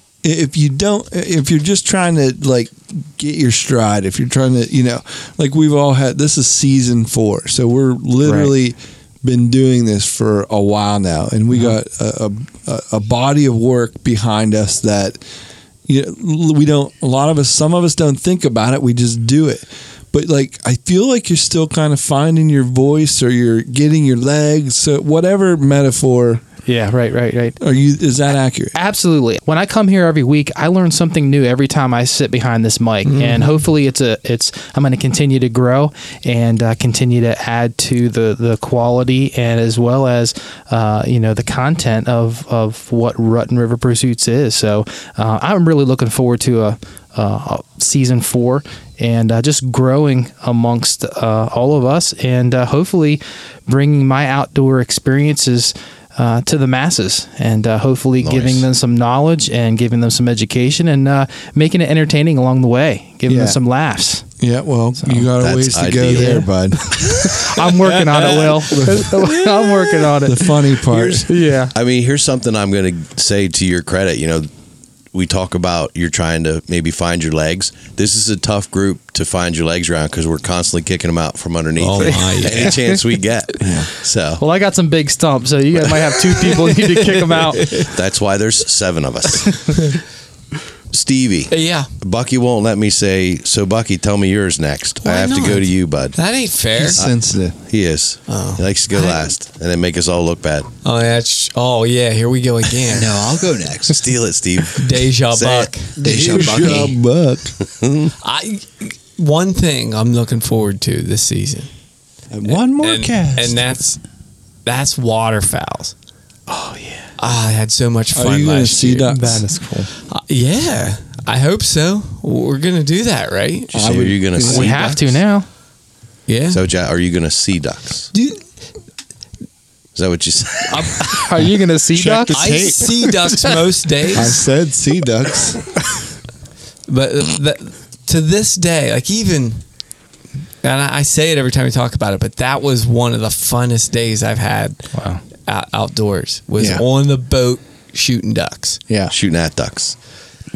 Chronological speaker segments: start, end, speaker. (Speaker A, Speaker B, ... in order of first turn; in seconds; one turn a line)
Speaker A: 0.2-15.2
Speaker B: 8.2-8.5
Speaker A: 15.9-26.4
Speaker B: 26.7-27.6
Speaker A: 27.6-28.7
Speaker B: 28.7-64.2
Speaker C: 33.0-33.6
Speaker D: 58.2-58.6
Speaker A: 63.2-63.6
Speaker A: 64.4-67.4
Speaker B: 65.0-65.3
Speaker D: 65.4-66.4
Speaker B: 66.0-66.5
Speaker B: 67.0-70.5
Speaker C: 68.0-68.7
Speaker A: 68.1-69.5
Speaker A: 70.1-71.3
Speaker D: 70.9-74.5
Speaker B: 71.3-71.7
Speaker D: 75.1-84.4
Speaker C: 81.8-83.0
Speaker B: 82.0-82.4
Speaker A: 83.6-83.9
Speaker B: 84.4-87.7
Speaker C: 87.0-87.9
Speaker D: 87.9-89.8
Speaker D: 90.9-96.2
Speaker C: 91.5-91.9
Speaker C: 95.0-97.0
Speaker A: 96.8-97.5
Speaker D: 97.7-100.7
Speaker C: 98.3-99.2
Speaker C: 100.8-103.3
Speaker E: 102.8-104.1
Speaker D: 103.9-105.7
Speaker C: 104.7-105.9
Speaker E: 106.0-107.0
Speaker A: 106.0-107.5
Speaker D: 106.3-106.8
Speaker D: 107.7-108.1
Speaker C: 108.2-111.7
Speaker A: 112.3-113.6
Speaker C: 112.5-114.0
Speaker C: 114.6-115.9
Speaker B: 116.5-117.0
Speaker C: 117.2-119.4
Speaker A: 118.1-119.5
Speaker B: 119.1-119.9
Speaker C: 120.1-123.9
Speaker D: 123.7-125.2
Speaker A: 123.7-124.8
Speaker B: 124.4-125.5
Speaker C: 126.3-126.6
Speaker D: 126.5-128.1
Speaker D: 129.9-131.2
Speaker B: 130.7-132.6
Speaker A: 131.9-133.5
Speaker C: 132.3-134.4
Speaker A: 134.1-135.7
Speaker C: 136.9-139.6
Speaker C: 140.6-144.9
Speaker B: 144.9-145.2
Speaker C: 145.4-148.8
Speaker A: 146.6-146.8
Speaker D: 149.1-149.9